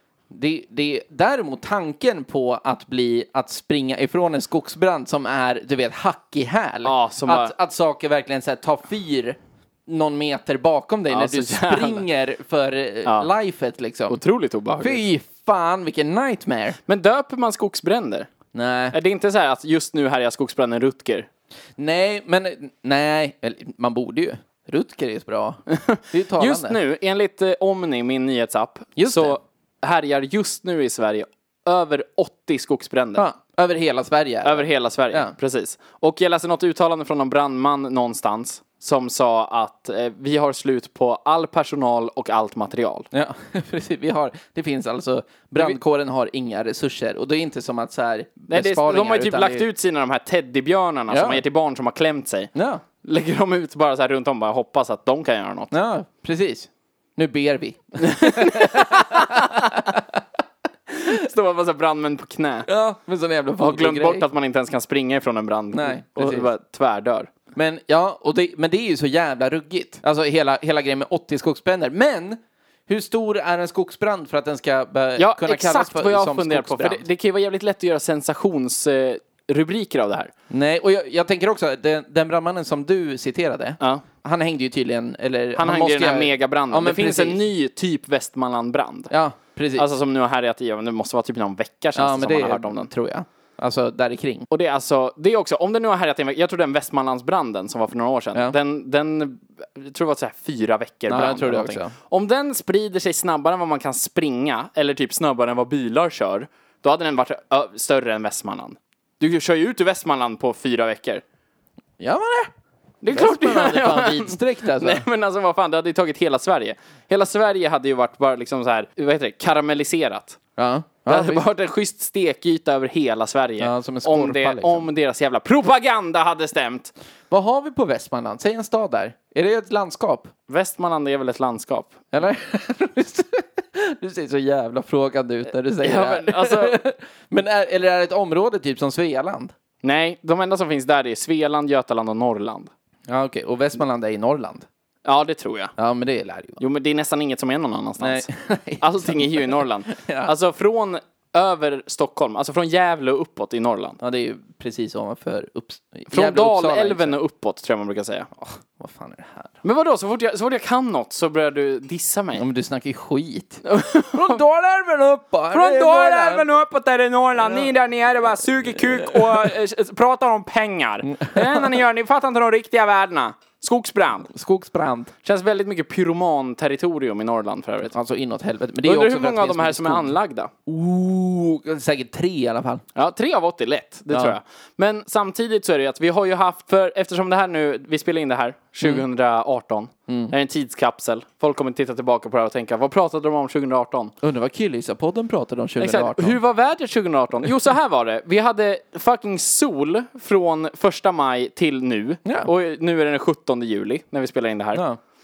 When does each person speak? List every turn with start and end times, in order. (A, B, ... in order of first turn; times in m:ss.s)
0:00.3-0:14.2 A
0:06.8-0:07.5 B
0:11.1-0:12.0 B
0:14.1-0:15.0 B
0:14.8-0:16.8 A
0:16.9-0:18.3 B
0:18.5-0:19.0 A
0:18.9-0:21.3 B
0:21.8-0:26.8 A
0:25.7-0:33.2 B
0:29.0-0:29.4 A
0:33.2-0:35.3 A
0:34.4-0:43.1 B
0:43.1-0:49.7 A
0:48.5-0:55.7 B
0:51.1-0:51.4 A
0:52.6-0:52.8 A
0:55.7-1:00.2 A
0:58.0-0:59.9 B
1:00.9-1:02.7 B
1:02.7-1:04.2 A
1:03.6-1:07.3 B
1:05.7-1:06.5 A
1:07.6-1:17.0 A
1:15.2-1:20.3 B
1:20.5-1:27.4 A
1:25.6-1:29.1 B
1:29.1-1:29.9 A
1:29.8-1:32.9 B
1:32.0-1:34.5 A
1:34.5-1:51.2 B
1:41.1-1:41.9 A
1:52.0-1:52.5 A
1:53.0-2:00.4 B
1:53.1-1:55.0 A
2:00.6-2:01.4 A
2:01.1-2:06.9 B
2:03.6-2:04.9 A
2:07.3-2:10.3 A
2:10.5-2:12.0 B
2:12.1-2:19.5 A
2:15.8-2:16.8 B
2:19.8-2:22.7 B
2:23.1-2:24.7 A
2:25.0-2:25.7 B
2:25.8-2:26.6 A
2:26.6-2:28.3 B
2:28.0-2:30.3 A
2:28.8-2:34.0 B
2:34.0-2:37.2 A
2:36.1-2:38.3 B
2:38.4-2:39.6 A
2:39.6-2:42.4 B
2:42.4-2:46.5 A
2:43.6-2:44.4 B
2:45.5-2:54.3 B
2:47.4-2:47.7 A
2:48.7-2:49.5 A
2:51.2-2:51.8 A
2:54.3-2:55.1 A
2:55.2-2:57.9 B
2:57.9-3:00.2 A
2:58.8-3:00.5 B
3:00.7-3:02.8 A
3:03.0-3:14.1 B
3:04.1-3:04.4 A
3:10.1-3:10.3 A
3:14.2-3:16.4 A
3:15.8-3:24.8 B
3:22.2-3:22.5 A
3:24.8-3:25.0 A